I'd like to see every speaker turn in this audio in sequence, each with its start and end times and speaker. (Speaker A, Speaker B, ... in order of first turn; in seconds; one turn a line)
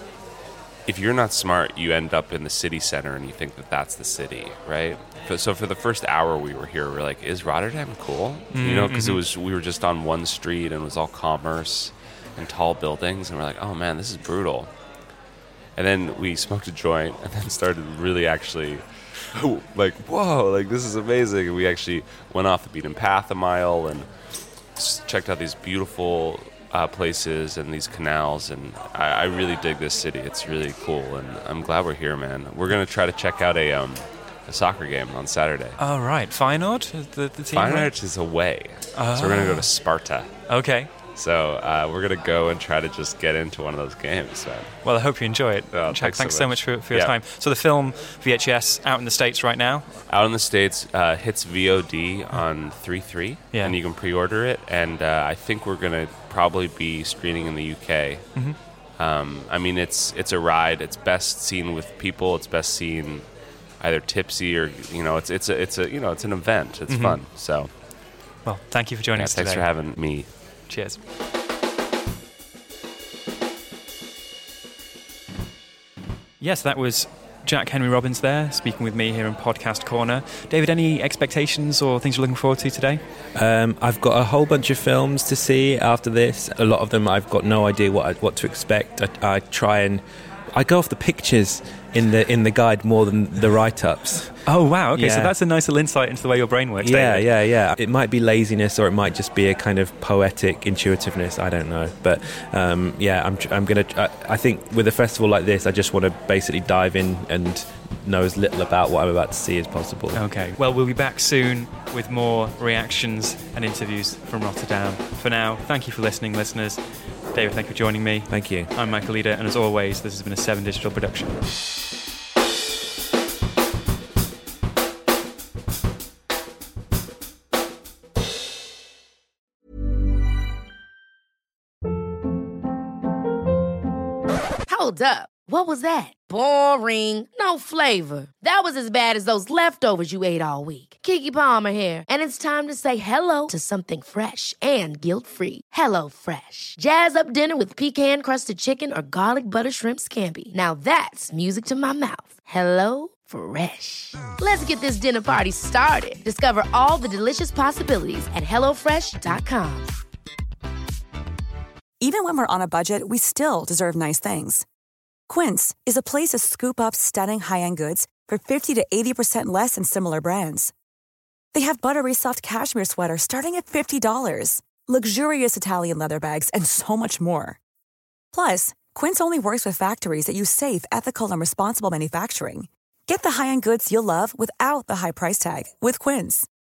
Speaker A: 0.9-14.7
Speaker B: 8.5-9.2
Speaker A: 15.8-24.1
Speaker A: 24.8-35.8
Speaker B: 35.8-37.9
Speaker A: 37.5-40.6
Speaker B: 38.9-39.7
Speaker B: 40.5-40.9
Speaker A: 41.1-45.0
Speaker B: 44.8-50.0
Speaker A: 45.7-47.1
Speaker A: 50.1-63.3
Speaker B: 53.5-53.8
Speaker B: 58.3-58.6
Speaker A: 63.8-67.8
Speaker B: 66.9-67.2
Speaker B: 68.4-70.2
Speaker A: 69.2-70.3
Speaker B: 70.7-71.0
Speaker B: 76.4-83.0
Speaker C: 83.3-90.0
Speaker C: 90.5-95.3
Speaker B: 94.5-97.3
Speaker C: 96.8-110.2
Speaker B: 110.1-121.5
Speaker C: 118.3-118.7
Speaker D: 134.7-159.9
Speaker E: 162.0-164.7
Speaker E: 165.3-170.7
Speaker E: 171.5-177.6
Speaker E: 178.3-186.5